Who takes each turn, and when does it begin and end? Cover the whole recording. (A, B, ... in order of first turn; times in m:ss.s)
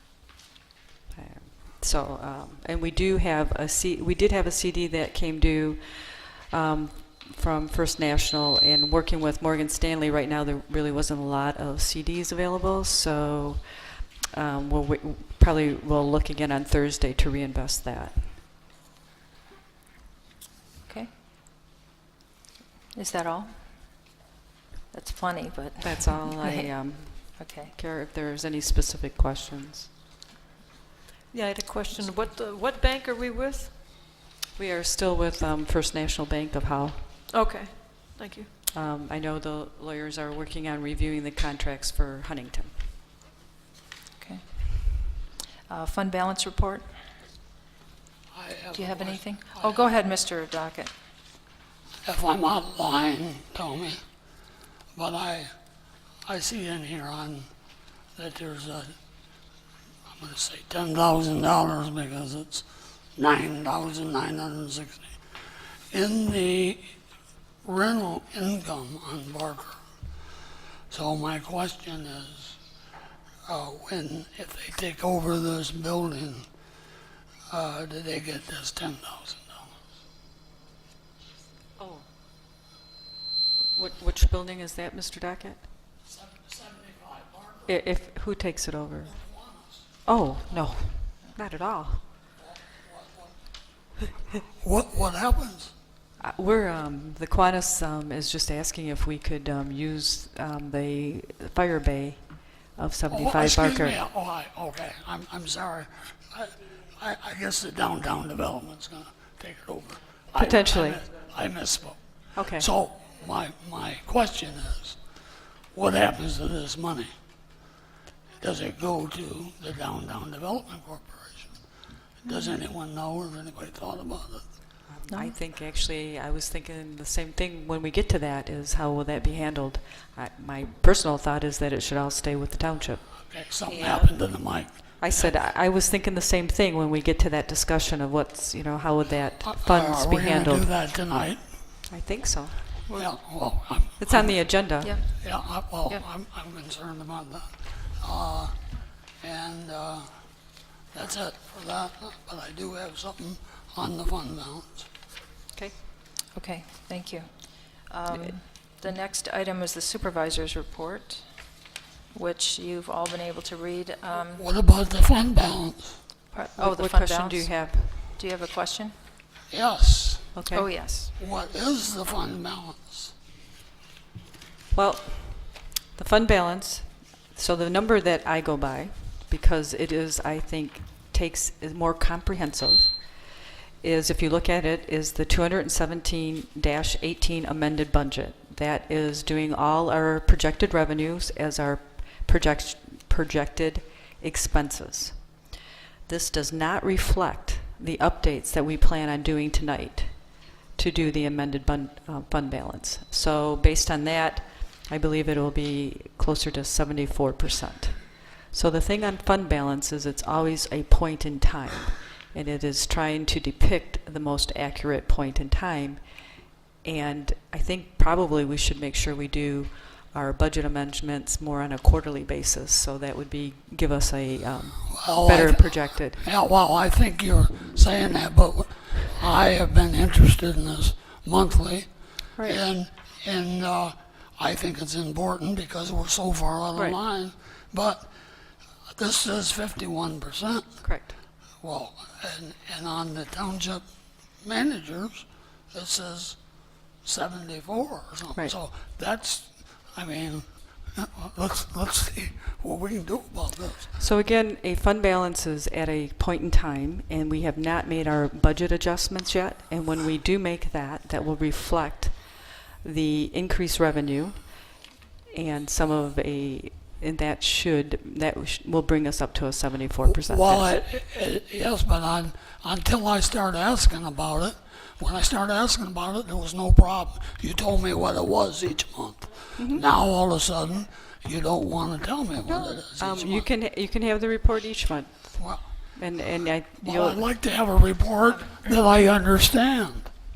0:01.1-0:18.4 A
0:22.9-0:23.5 B
0:24.9-0:27.7 B
0:25.8-0:29.9 A
0:31.3-0:33.7 C
0:34.6-0:37.1 A
0:37.3-0:38.5 C
0:38.7-0:42.8 A
0:44.2-0:45.2 B
0:45.7-0:46.9 B
0:48.3-0:49.8 D
0:48.7-0:50.9 B
0:52.0-0:54.0 D
0:54.9-0:55.5 D
0:56.2-0:57.5 D
0:58.2-0:58.9 D
1:00.1-1:05.1 D
1:05.9-1:06.9 D
1:07.6-1:09.8 D
1:10.9-1:12.6 D
1:13.5-1:16.5 D
1:17.5-1:19.7 D
1:21.8-1:22.0 A
1:23.7-1:25.6 A
1:26.1-1:27.7 D
1:27.6-1:29.1 A
1:29.1-1:29.8 D
1:30.0-1:32.0 A
1:32.5-1:33.3 D
1:34.5-1:35.7 D
1:36.2-1:44.0 A
1:43.1-1:55.0 D
1:50.3-1:51.0 A
1:52.3-1:52.7 A
1:55.7-1:57.1 D
1:58.4-2:01.6 D
2:02.2-2:04.4 D
2:04.9-2:14.1 A
2:05.1-2:05.4 B
2:13.3-2:15.4 D
2:15.0-2:20.7 A
2:19.4-2:21.4 D
2:21.9-2:22.7 A
2:22.9-2:24.5 D
2:24.0-2:24.9 A
2:24.8-2:25.2 B
2:25.2-2:28.6 D
2:29.2-2:30.1 D
2:30.9-2:34.9 D
2:36.3-2:41.2 B
2:38.1-2:38.3 A
2:42.1-2:44.4 B
2:44.3-2:46.0 D
2:46.3-2:48.9 B
2:46.6-2:48.0 A
2:49.5-2:50.4 D
2:50.3-2:50.7 A
2:50.5-2:51.1 B
2:51.2-2:53.1 D
2:54.7-3:03.2 A
3:03.8-3:15.3 A
3:16.1-3:46.2 A
3:44.9-3:58.1 D
3:52.4-3:52.6 A
3:58.9-4:00.8 D
4:00.8-4:01.1 A
4:01.6-4:03.8 D
4:04.4-4:06.4 D
4:07.0-4:14.0 D
4:14.0-4:30.7 A
4:30.1-4:43.5 D
4:39.6-4:39.8 A
4:42.5-4:47.2 A
4:45.4-4:45.6 D
4:46.8-4:50.1 D